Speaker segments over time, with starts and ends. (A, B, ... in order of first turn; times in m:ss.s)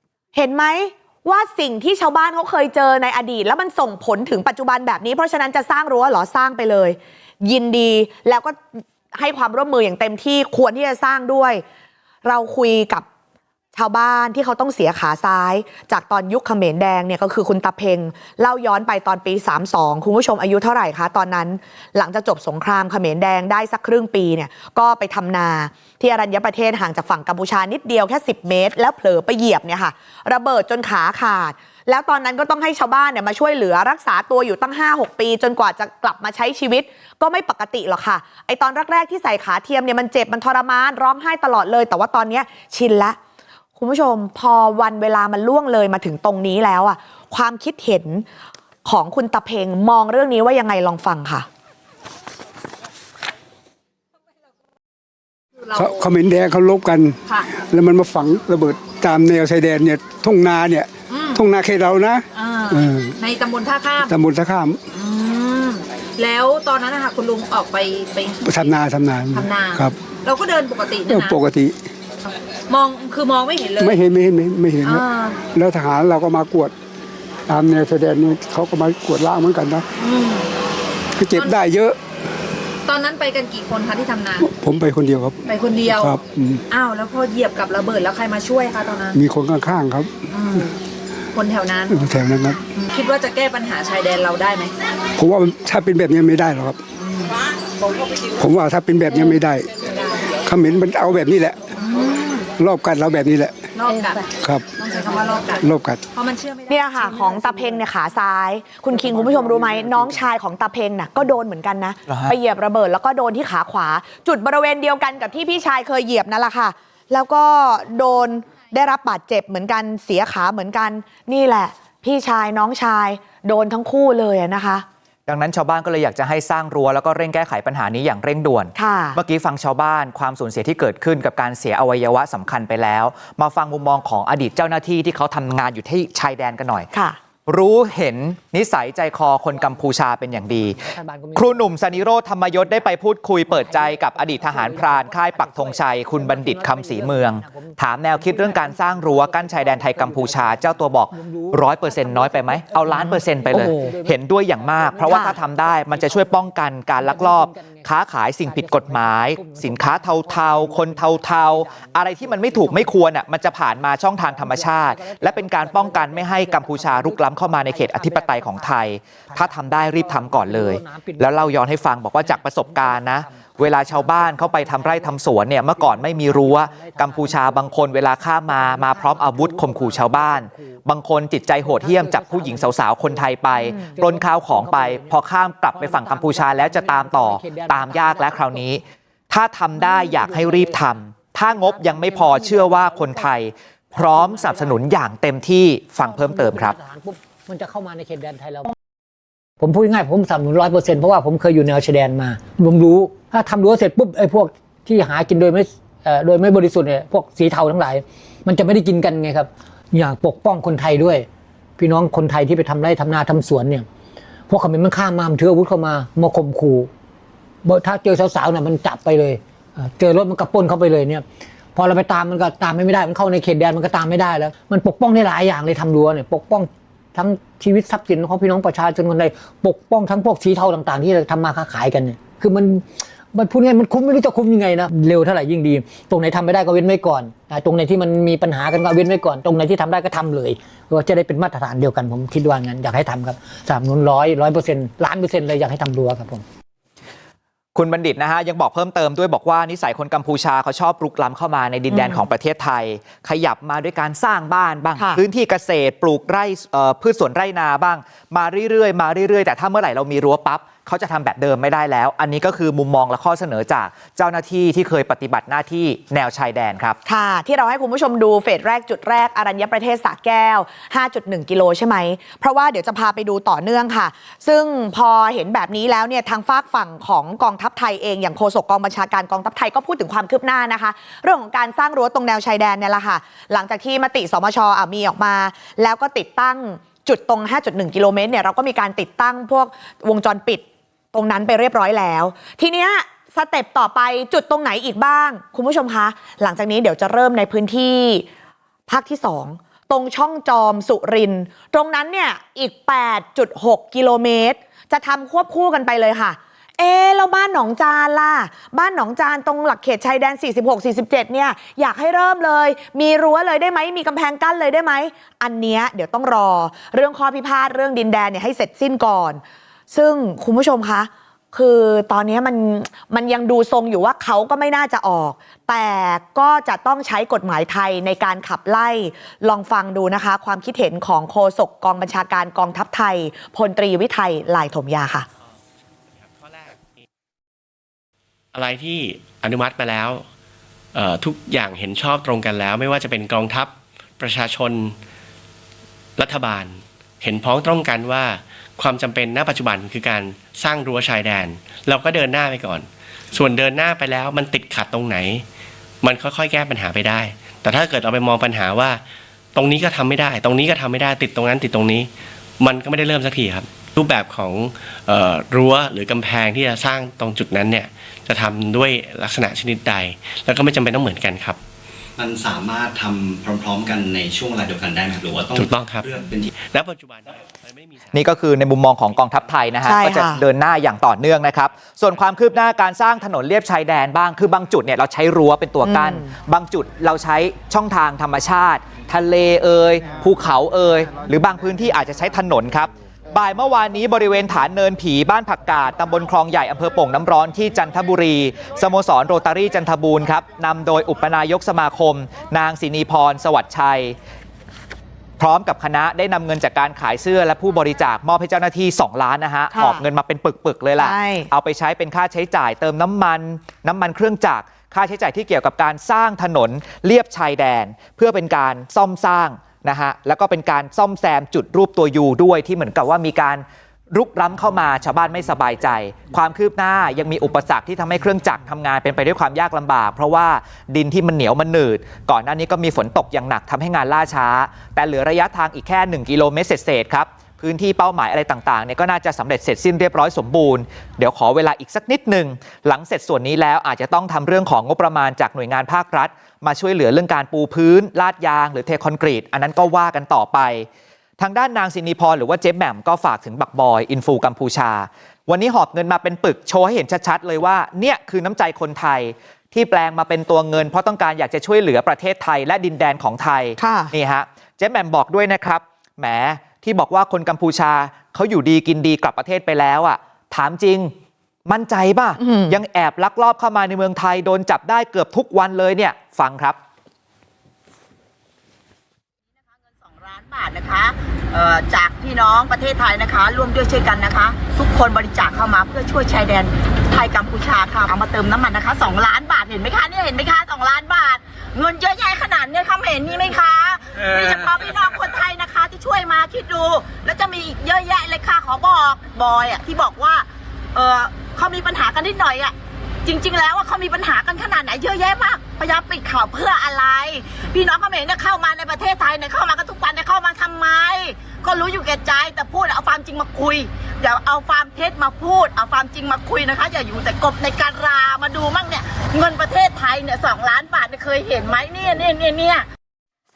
0:00.3-0:08.6 A
0:09.1-0:11.6 A
0:12.2-0:13.0 A
0:13.7-0:43.2 A
0:43.8-0:48.2 A
0:48.8-0:51.4 A
0:55.6-0:56.1 B
0:55.8-1:03.1 C
1:01.1-1:01.4 B
1:02.3-1:04.2 B
1:04.0-1:04.8 C
1:04.9-1:08.7 B
1:08.4-1:10.0 C
1:09.3-1:11.4 B
1:11.1-1:11.8 C
1:12.7-1:14.0 B
1:13.8-1:16.7 C
1:14.8-1:15.4 B
1:17.5-1:19.8 C
1:20.0-1:20.5 B
1:21.2-1:22.0 C
1:22.8-1:24.5 B
1:24.4-1:26.6 C
1:25.5-1:26.2 B
1:26.7-1:29.2 B
1:29.1-1:30.1 C
1:30.3-1:30.8 B
1:31.3-1:32.0 B
1:31.9-1:32.6 C
1:32.7-1:34.7 B
1:35.2-1:36.8 C
1:37.0-1:37.3 B
1:38.4-1:39.7 C
1:39.1-1:40.2 B
1:40.4-1:41.6 C
1:41.8-1:42.5 B
1:42.6-1:43.6 C
1:43.8-1:47.5 B
1:45.6-1:46.0 C
1:46.7-2:04.8 A
1:52.1-1:52.4 D
2:05.3-2:16.9 D
2:08.8-2:09.2 A
2:16.9-2:17.2 A
2:17.5-2:20.8 D
2:20.8-2:21.8 E
2:21.3-3:16.8 D
2:23.5-2:43.0 E
2:35.0-2:35.4 A
2:44.2-2:48.7 E
2:49.3-2:51.6 E
2:52.2-2:55.1 E
2:55.8-2:57.8 E
2:58.4-3:00.8 E
3:01.6-3:08.6 E
3:09.8-3:10.8 E
3:11.6-3:13.2 E
3:14.0-3:14.8 E
3:16.0-3:18.7 E
3:19.6-3:31.3 E
3:31.8-3:33.8 E
3:34.5-3:36.9 E
3:37.6-3:41.2 E
3:41.7-4:06.4 E
4:07.7-4:27.0 D
4:11.9-4:12.2 A
4:15.0-4:15.2 A
4:27.0-4:58.2 A
4:58.9-5:35.2 A
5:36.2-5:36.8 F
5:38.5-5:40.2 F
5:40.9-5:45.0 F
5:46.2-5:55.4 F
5:56.0-5:59.0 F
5:59.5-6:02.1 F
6:02.6-6:11.6 F
6:12.2-6:16.5 G
6:15.5-6:18.2 F
6:18.1-6:44.2 D
6:19.8-6:20.4 A
6:25.8-6:26.3 A
6:45.4-7:30.9 D
6:49.7-6:50.0 A
6:51.0-6:51.5 A
7:31.4-7:51.1 D
7:43.8-7:44.1 A
7:51.7-7:56.8 D
7:52.4-7:52.8 A
8:00.0-8:42.8 H